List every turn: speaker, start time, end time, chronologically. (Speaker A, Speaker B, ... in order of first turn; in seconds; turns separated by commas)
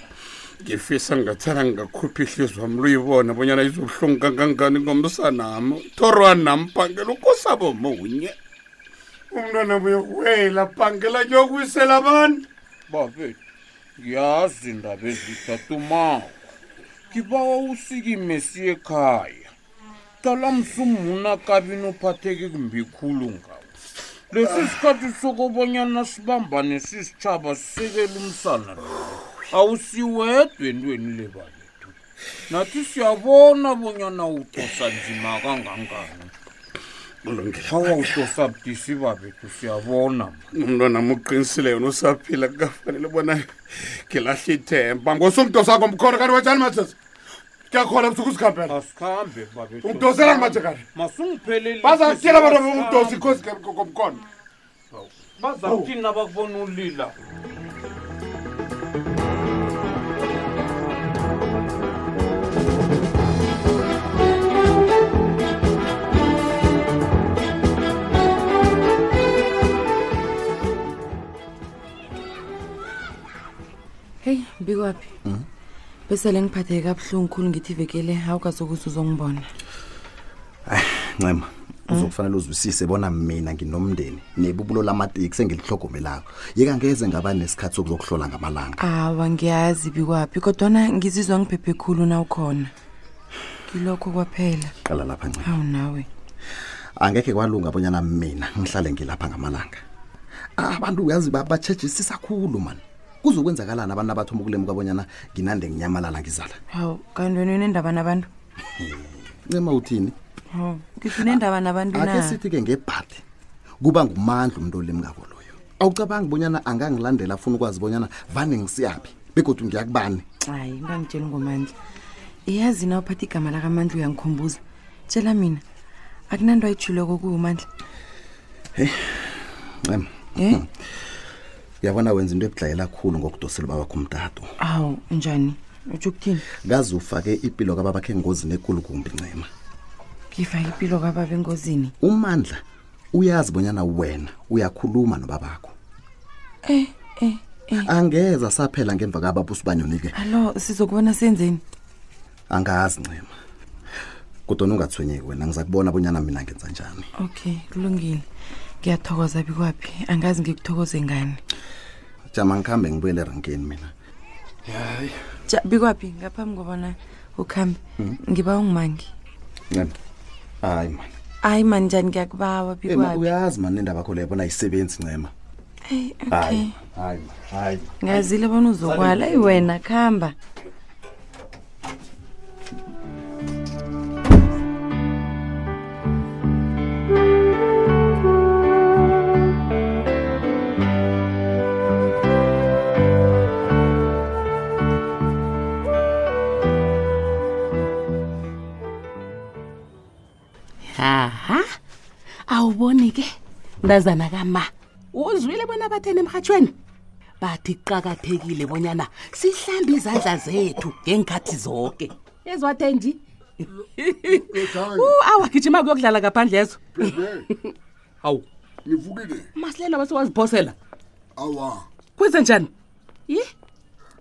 Speaker A: 0.6-8.3, Speaker A: 9.3-12.4, Speaker B: 12.9-13.4, Speaker B: 14.0-16.3, Speaker B: 17.1-19.5, Speaker B: 20.2-23.6, Speaker B: 24.3-31.9, Speaker B: 32.5-36.3, Speaker A: 37.2-38.1, Speaker B: 37.7-40.5, Speaker A: 40.5-47.0, Speaker A: 47.7-48.8, Speaker B: 48.7-53.5, Speaker A: 49.8-50.8, Speaker A: 51.8-54.2, Speaker B: 54.9-57.1, Speaker C: 74.2-75.1, Speaker C: 76.1-79.5, Speaker D: 80.7-88.8, Speaker C: 88.8-92.7, Speaker C: 93.7-94.8, Speaker D: 94.9-95.5, Speaker C: 95.4-96.1, Speaker D: 97.0-99.8, Speaker D: 100.6-106.6, Speaker C: 106.7-108.3, Speaker D: 108.8-110.2, Speaker C: 110.5-112.4, Speaker D: 111.1-111.4, Speaker D: 111.9-113.2, Speaker D: 113.8-120.2, Speaker C: 120.5-121.7, Speaker C: 122.5-125.6, Speaker C: 126.3-127.7, Speaker D: 128.8-130.7, Speaker C: 130.4-130.6, Speaker D: 131.8-134.5, Speaker C: 134.6-136.4, Speaker D: 136.6-139.5, Speaker C: 140.3-141.9, Speaker D: 142.0-142.6, Speaker D: 143.1-145.7, Speaker C: 146.7-147.9, Speaker D: 147.8-150.2, Speaker C: 150.1-151.6, Speaker D: 152.5-153.3, Speaker D: 154.5-157.1, Speaker C: 157.2-158.2, Speaker C: 158.8-161.4, Speaker D: 162.3-163.9, Speaker D: 164.7-165.2, Speaker C: 165.5-169.1, Speaker D: 169.7-169.9, Speaker D: 170.6-171.1, Speaker C: 171.4-173.3, Speaker D: 172.8-175.3, Speaker C: 175.9-176.8, Speaker D: 176.3-177.9, Speaker C: 178.0-180.3, Speaker E: 200.8-201.7, Speaker E: 202.5-206.7, Speaker E: 207.4-213.2, Speaker E: 214.0-217.7, Speaker F: 214.3-215.2, Speaker F: 216.9-217.5, Speaker F: 218.8-219.5, Speaker E: 219.6-220.8, Speaker F: 221.4-221.8, Speaker E: 222.2-222.7